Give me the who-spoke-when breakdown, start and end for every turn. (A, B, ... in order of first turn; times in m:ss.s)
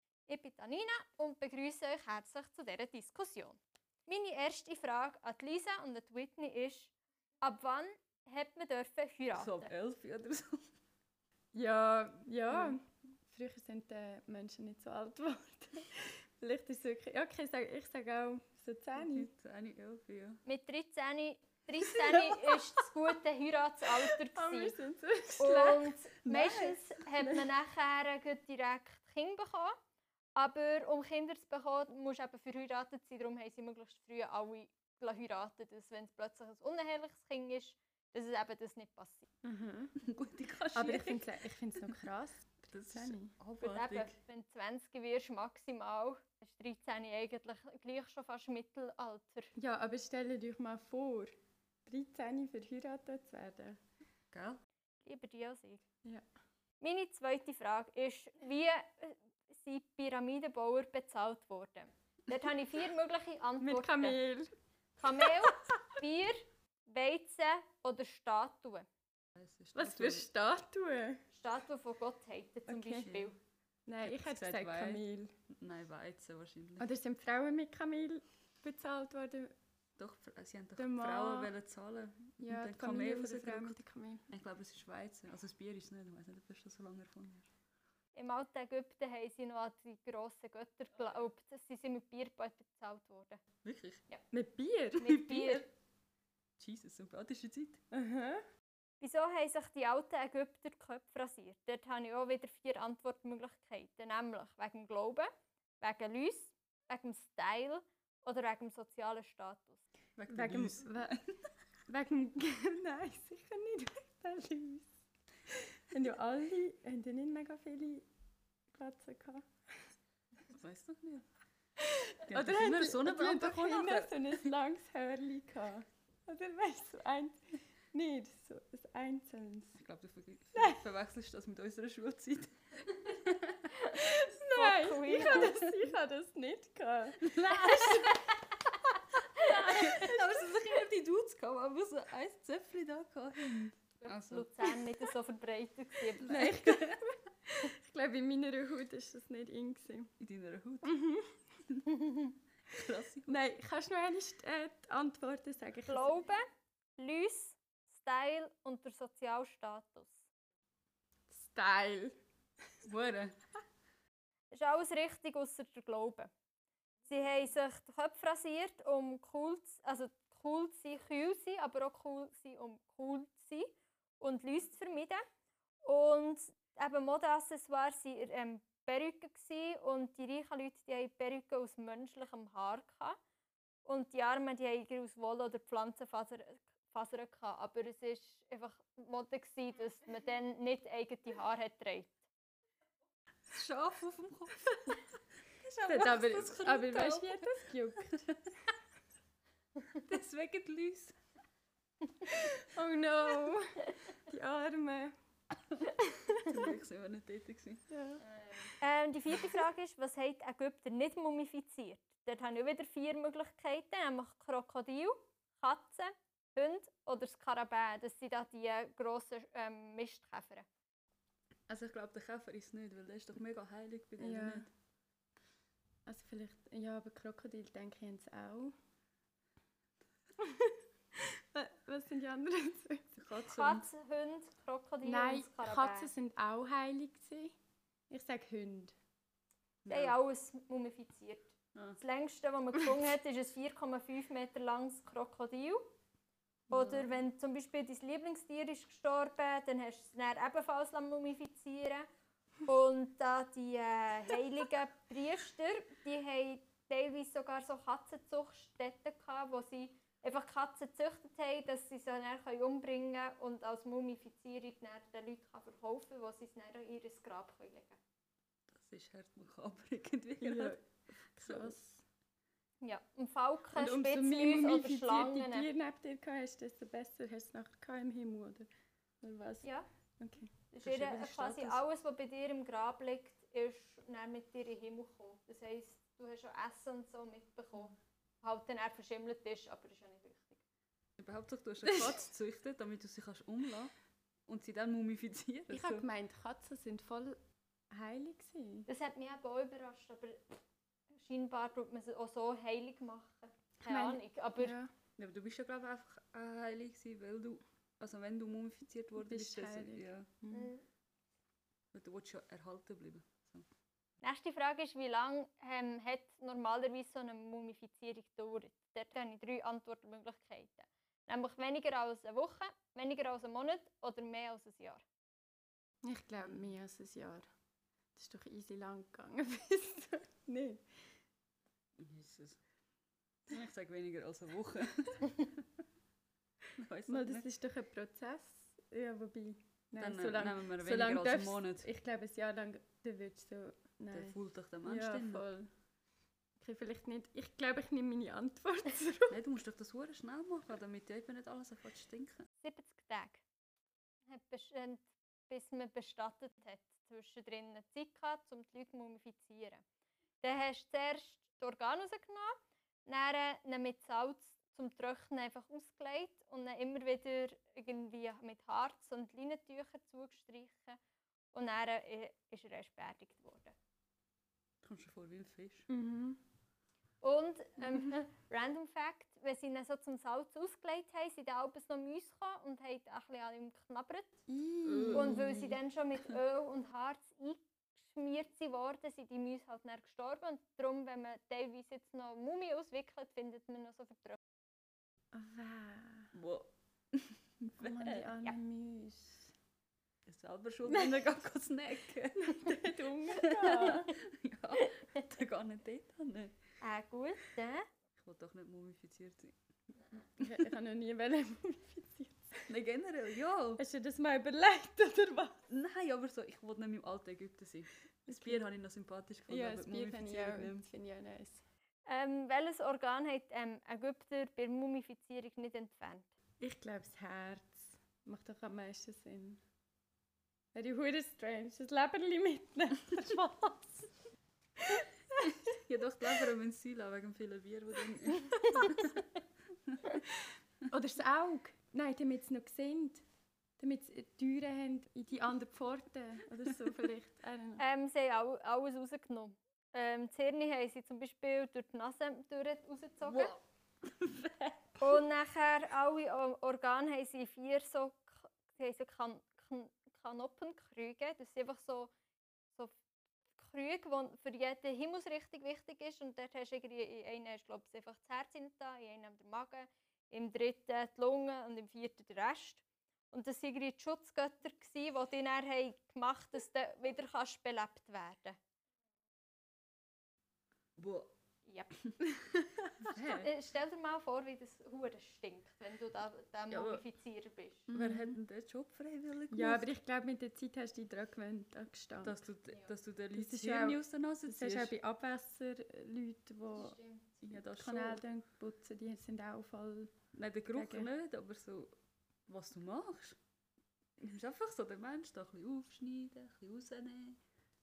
0:00.3-0:09.7 A
0:09.3-0:10.6 B
0:11.5-0:19.3 C
0:19.0-0:20.4 B
0:20.4-0:24.8 A
0:21.8-0:22.8 B
0:24.3-0:25.9 C
0:25.4-0:29.7 A
0:26.2-0:27.5 B
0:30.4-0:39.2 A
0:39.4-0:39.9 C
0:40.0-0:41.3 B
0:40.7-0:43.3 C
0:42.7-0:44.1 B
0:43.6-0:49.5 A
0:49.6-0:51.3 C
0:51.8-0:53.8 C
0:54.3-0:54.6 B
0:55.0-0:55.8 A
0:56.8-1:04.2 A
1:03.6-1:04.5 C
1:05.0-1:08.9 A
1:09.4-1:10.2 B
1:09.7-1:11.2 C
1:11.3-1:13.4 A
1:12.7-1:13.2 C
1:13.0-1:13.3 B
1:13.9-1:15.3 C
1:14.0-1:15.0 B
1:15.5-1:16.9 B
1:16.8-1:19.5 C
1:20.0-1:23.8 B
1:20.8-1:21.5 C
1:22.4-1:24.3 C
1:24.3-1:27.5 B
1:28.1-1:33.4 A
1:33.6-1:34.0 B
1:34.3-1:35.2 C
1:35.0-1:35.7 A
1:35.1-1:35.6 B
1:36.6-1:37.8 B
1:37.9-1:38.4 C
1:39.0-1:49.8 A
1:50.2-1:51.2 B
1:50.3-1:51.2 C
1:51.9-1:54.9 C
1:55.9-1:58.0 C
1:58.7-1:59.4 C
2:00.5-2:01.2 B
2:01.8-2:07.4 C
2:02.2-2:04.4 B
2:07.9-2:09.8 C
2:09.8-2:13.6 B
2:13.9-2:18.2 C
2:14.5-2:15.5 A
2:17.2-2:18.4 B
2:19.2-2:24.8 B
2:19.8-2:20.1 C
2:24.0-2:26.4 A
2:26.2-2:27.0 B
2:26.2-2:30.1 C
2:30.2-2:31.0 B
2:30.8-2:31.4 C
2:31.7-2:32.0 B
2:32.7-2:33.4 B
2:33.2-2:36.1 C
2:35.9-2:36.4 A
2:37.0-2:40.2 A
2:41.3-2:42.1 C
2:42.8-2:43.4 B
2:44.5-2:46.3 A
2:47.1-2:55.2 A
2:55.8-3:03.2 A
3:03.8-3:12.2 A
3:13.5-3:17.6 B
3:15.9-3:18.3 C
3:19.9-3:21.1 B
3:22.5-3:25.1 C
3:26.0-3:26.2 C
3:26.4-3:27.8 B
3:27.9-3:28.2 C
3:28.2-3:40.7 A
3:41.7-3:44.7 B
3:44.2-3:44.7 C
3:46.1-3:48.7 C
3:50.4-3:53.1 C
3:53.1-3:53.9 B
3:53.5-3:56.1 A
3:55.0-3:57.5 C
3:58.1-3:58.9 C
3:59.8-4:00.2 B
3:59.9-4:05.8 A
4:06.7-4:12.1 A
4:06.7-4:07.1 B
4:12.6-4:28.0 A
4:28.7-4:30.8 B
4:30.4-4:32.0 C
4:31.4-4:31.7 B
4:32.8-4:35.7 A
4:33.7-4:38.7 C
4:39.2-4:39.6 C
4:40.2-4:40.5 C
4:40.7-4:50.6 A
4:40.8-4:41.8 B
4:51.2-4:53.9 B
4:54.5-4:56.0 B
4:55.7-4:57.4 C
4:57.9-4:58.9 C
4:58.9-5:00.4 A
5:01.1-5:04.7 A
5:03.8-5:04.9 C
5:05.2-5:10.4 B
5:09.2-5:10.7 C
5:10.5-5:10.8 A
5:11.9-5:13.6 B
5:14.2-5:25.0 A
5:26.0-5:27.5 C
5:28.1-5:30.8 C
5:32.0-5:32.6 B
5:33.5-5:35.6 B
5:36.7-5:37.4 B
5:37.1-5:45.7 C
5:40.0-5:41.9 B
5:44.1-5:45.4 B
5:46.6-5:49.4 C
5:49.3-5:52.5 B
5:52.6-5:53.4 A
5:54.3-5:59.8 A
6:00.4-6:02.5 A
6:03.0-6:11.0 A
6:11.5-6:13.7 A
6:14.8-6:15.8 B
6:15.9-6:16.4 C
6:17.2-6:24.4 A
6:24.5-6:25.8 C
6:24.8-6:25.4 B
6:25.1-6:34.4 A
6:35.3-6:36.3 C
6:36.3-6:38.2 B
6:37.8-6:39.5 C
6:40.3-6:46.6 B
6:40.9-6:41.3 C
6:42.3-6:44.1 C
6:46.8-6:47.8 A
6:48.2-6:49.5 B
6:50.4-6:52.7 C
6:52.7-6:53.8 B
6:53.8-6:55.6 C
6:55.7-7:00.9 B
6:58.2-6:58.7 C
6:59.5-7:01.6 C
7:02.0-7:06.3 A
7:06.6-7:09.6 C
7:10.7-7:13.5 C
7:15.4-7:19.3 B
7:19.9-7:20.2 B
7:20.9-7:23.2 C
7:23.8-7:27.8 C
7:27.8-7:33.5 A
7:33.2-7:35.2 B
7:35.0-7:42.1 A
7:43.6-7:58.6 A
8:01.0-8:01.3 B
8:03.0-8:03.5 B
8:03.1-8:07.9 A
8:06.7-8:07.0 B
8:07.9-8:08.4 C
8:07.9-8:09.9 B
8:09.5-8:12.4 C
8:12.2-8:14.9 B
8:13.3-8:17.0 C
8:16.7-8:17.4 A
8:17.4-8:18.2 B
8:17.7-8:20.1 C
8:20.3-8:21.9 B
8:20.7-8:21.1 C
8:22.5-8:23.4 B
8:24.2-8:27.4 B